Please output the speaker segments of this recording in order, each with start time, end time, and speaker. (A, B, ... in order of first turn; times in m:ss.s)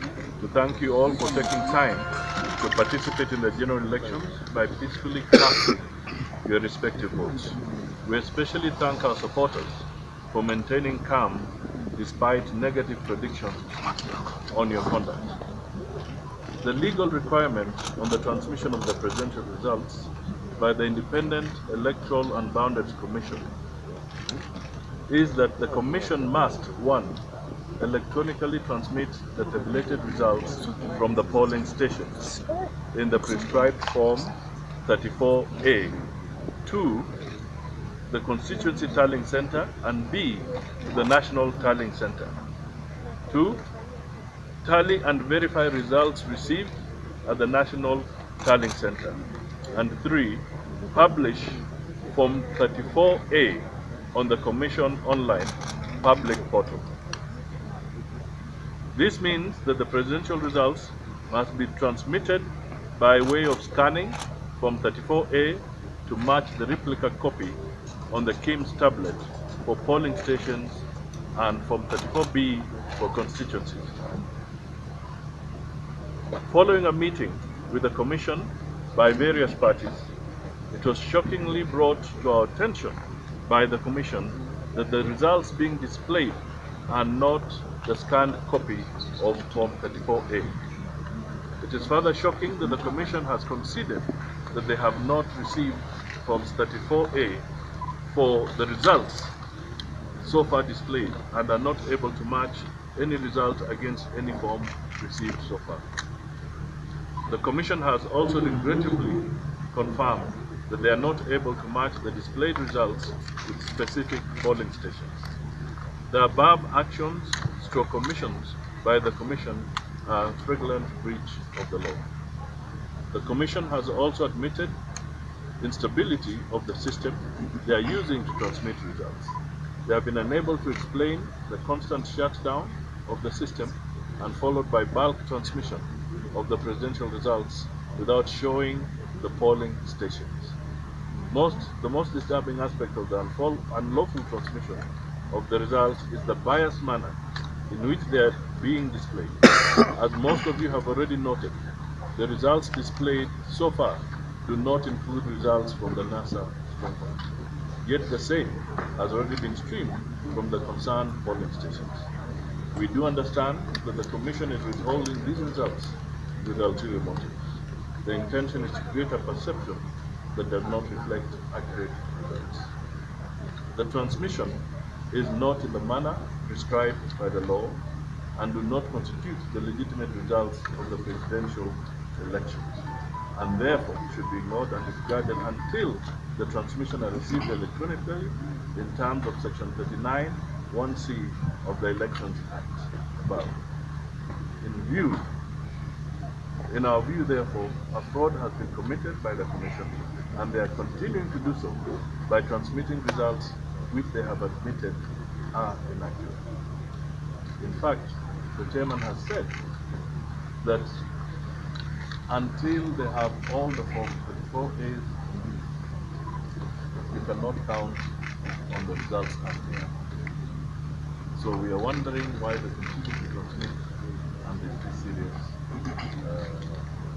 0:00.4-0:05.8 A
0:06.4-0:13.9 A
0:14.5-0:15.3 A
0:16.6-0:23.5 A
0:25.1-0:27.2 A
0:27.8-0:32.4 A
0:32.9-0:36.0 A
0:36.6-0:37.1 A
0:38.1-0:42.4 A
0:43.3-0:43.6 A
0:44.6-0:56.9 A
0:58.9-1:07.6 A
1:08.1-1:10.8 A
1:11.4-1:14.0 A
1:16.5-1:20.1 A
1:20.7-1:30.6 A
1:31.6-1:37.4 A
1:38.1-1:39.4 A
1:40.2-1:45.8 A
1:47.3-1:55.2 A
1:56.1-2:02.1 A
2:03.1-2:04.8 A
2:05.6-2:20.6 A
2:21.3-2:27.2 A
2:27.7-2:31.6 A
2:32.2-2:37.2 A
2:37.8-2:42.1 A
2:42.7-2:52.7 A
2:53.7-2:57.8 A
2:58.4-3:02.8 A
3:03.4-3:13.6 A
3:14.6-3:15.3 A
3:16.7-3:26.4 A
3:27.6-3:29.6 A
3:30.6-3:31.0 A
3:32.3-3:35.2 A
3:37.1-3:38.0 A
3:38.7-3:40.0 A
3:41.3-3:43.8 A
3:44.4-3:45.6 A
3:46.2-3:46.8 A